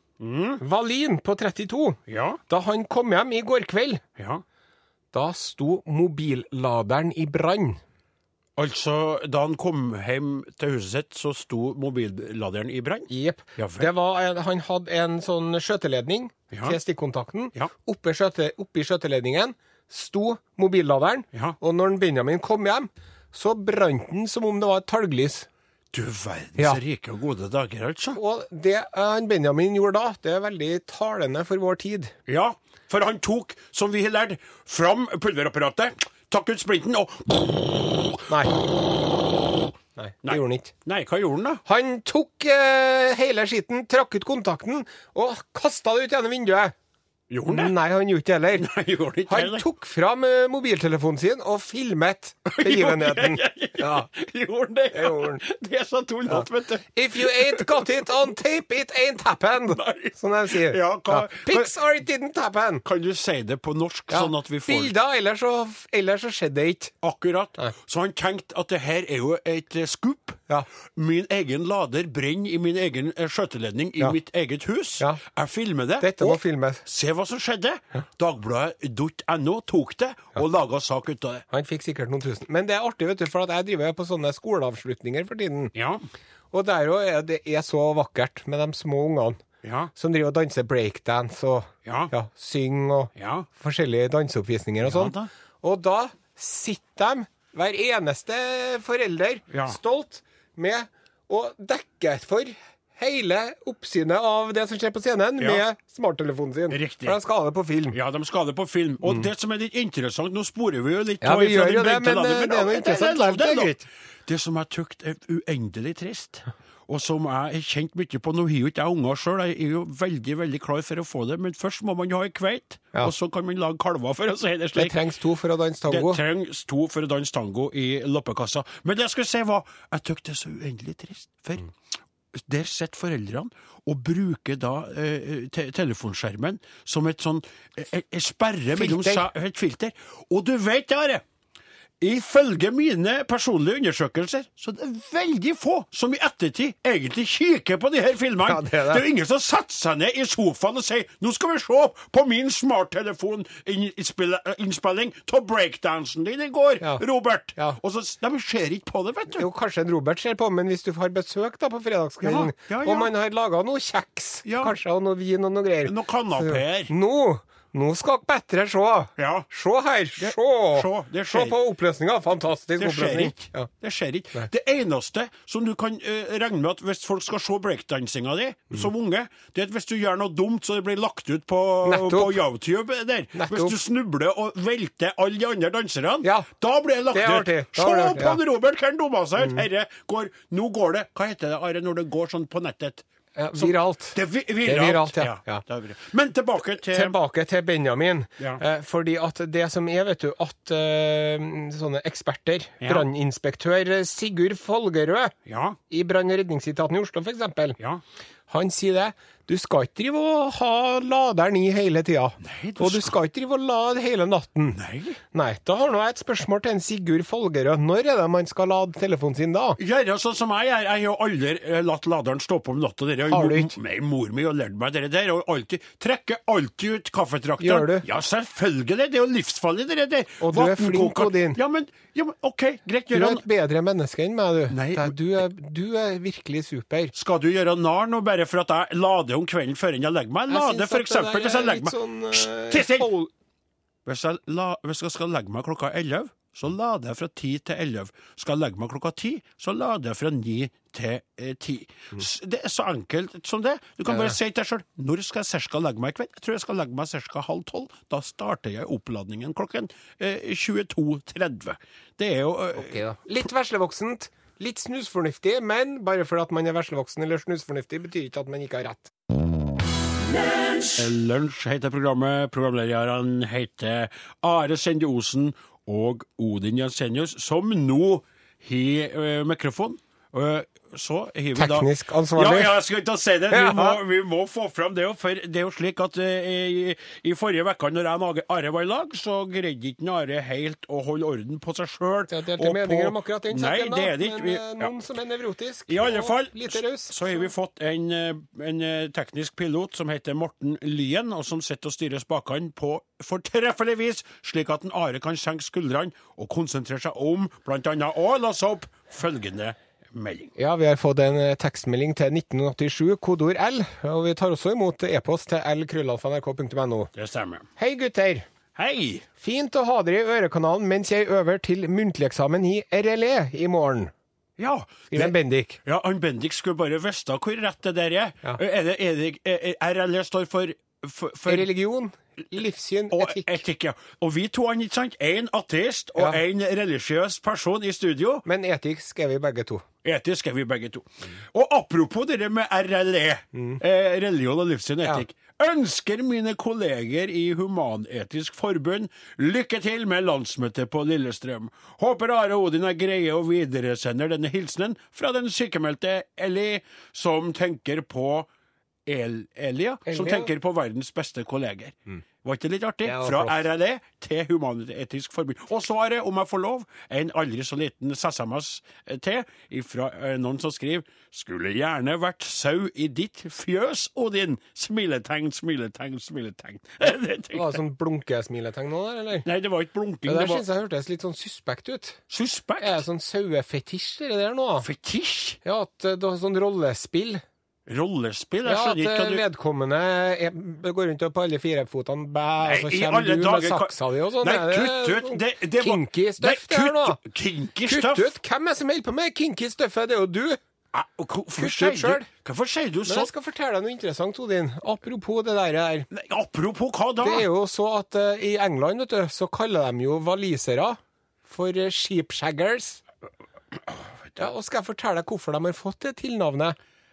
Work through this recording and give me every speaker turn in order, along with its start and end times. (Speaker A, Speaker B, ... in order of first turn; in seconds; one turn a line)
Speaker A: 0.2-0.6
Speaker B: 0.6-4.0
Speaker A: 2.1-2.4
Speaker A: 4.2-4.4
Speaker B: 5.1-7.8
Speaker A: 8.6-13.9
Speaker B: 13.1-25.5
Speaker A: 16.5-16.8
Speaker A: 25.9-28.2
Speaker B: 28.1-32.1
Speaker A: 32.3-38.3
Speaker B: 38.3-38.6
Speaker B: 40.0-40.7
Speaker A: 40.2-41.6
Speaker B: 41.7-46.7
Speaker A: 47.3-47.7
Speaker B: 47.5-48.7
Speaker A: 48.5-49.7
Speaker B: 49.3-54.1
Speaker A: 52.5-58.1
Speaker B: 54.9-55.4
Speaker B: 56.3-62.8
Speaker A: 59.7-61.7
Speaker A: 62.9-64.9
Speaker B: 64.1-66.9
Speaker A: 67.0-81.4
Speaker B: 76.0-76.8
Speaker B: 81.5-85.7
Speaker A: 85.8-86.0
Speaker B: 86.5-89.4
Speaker A: 89.6-89.9
Speaker B: 90.0-108.0
Speaker A: 91.8-92.1
Speaker A: 93.2-93.5
Speaker A: 94.8-95.3
Speaker A: 99.5-99.8
Speaker A: 105.4-105.6
Speaker A: 106.7-107.2
Speaker A: 107.9-125.0
Speaker B: 111.2-113.9
Speaker B: 124.8-126.2
Speaker A: 125.9-131.7
Speaker A: 132.3-141.2
Speaker B: 138.8-139.3
Speaker A: 142.0-159.5
Speaker B: 148.4-149.0
Speaker B: 159.4-173.7
Speaker A: 162.2-163.1
Speaker A: 164.4-164.8
Speaker A: 165.9-166.9
Speaker A: 169.2-169.5
Speaker A: 170.2-171.6
Speaker A: 172.8-193.1
Speaker B: 181.8-182.4
Speaker B: 183.3-183.8
Speaker B: 186.2-186.5
Speaker B: 187.1-188.4
Speaker B: 193.4-195.6
Speaker A: 193.6-197.2
Speaker B: 196.8-205.3
Speaker A: 202.8-203.1
Speaker A: 205.5-205.8
Speaker B: 205.9-207.8
Speaker B: 208.5-214.8
Speaker A: 212.4-213.2
Speaker A: 214.7-215.2
Speaker B: 215.3-219.8
Speaker A: 219.8-233.4
Speaker B: 223.3-223.8
Speaker B: 227.6-228.1
Speaker B: 230.4-231.6
Speaker B: 233.1-237.1
Speaker A: 234.7-235.2
Speaker A: 237.1-243.1
Speaker B: 240.5-243.3
Speaker A: 244.1-263.0
Speaker B: 254.1-254.3
Speaker B: 262.8-269.1
Speaker A: 270.8-294.9
Speaker B: 281.6-282.8
Speaker B: 283.5-284.0
Speaker B: 292.3-297.5
Speaker A: 295.9-310.5
Speaker B: 310.6-317.1
Speaker A: 317.1-317.7
Speaker B: 317.8-318.5
Speaker A: 318.8-319.2
Speaker B: 319.4-324.1
Speaker A: 324.6-331.7
Speaker B: 325.1-325.8
Speaker B: 331.5-333.6
Speaker A: 333.1-338.4
Speaker B: 338.4-339.8
Speaker A: 340.0-358.5
Speaker B: 343.6-343.8
Speaker A: 359.1-377.8
Speaker B: 360.1-360.5
Speaker B: 363.1-363.6
Speaker B: 377.5-379.5
Speaker A: 379.4-380.6
Speaker B: 380.3-382.2
Speaker A: 382.3-383.0
Speaker B: 382.8-384.9
Speaker A: 384.8-385.6
Speaker B: 385.6-387.4
Speaker A: 387.9-389.4
Speaker B: 388.6-397.2
Speaker A: 392.6-398.4
Speaker B: 397.9-400.6
Speaker A: 400.9-403.3
Speaker B: 401.6-402.3
Speaker B: 403.1-406.1
Speaker A: 406.1-407.5
Speaker B: 407.2-413.0
Speaker B: 414.4-416.8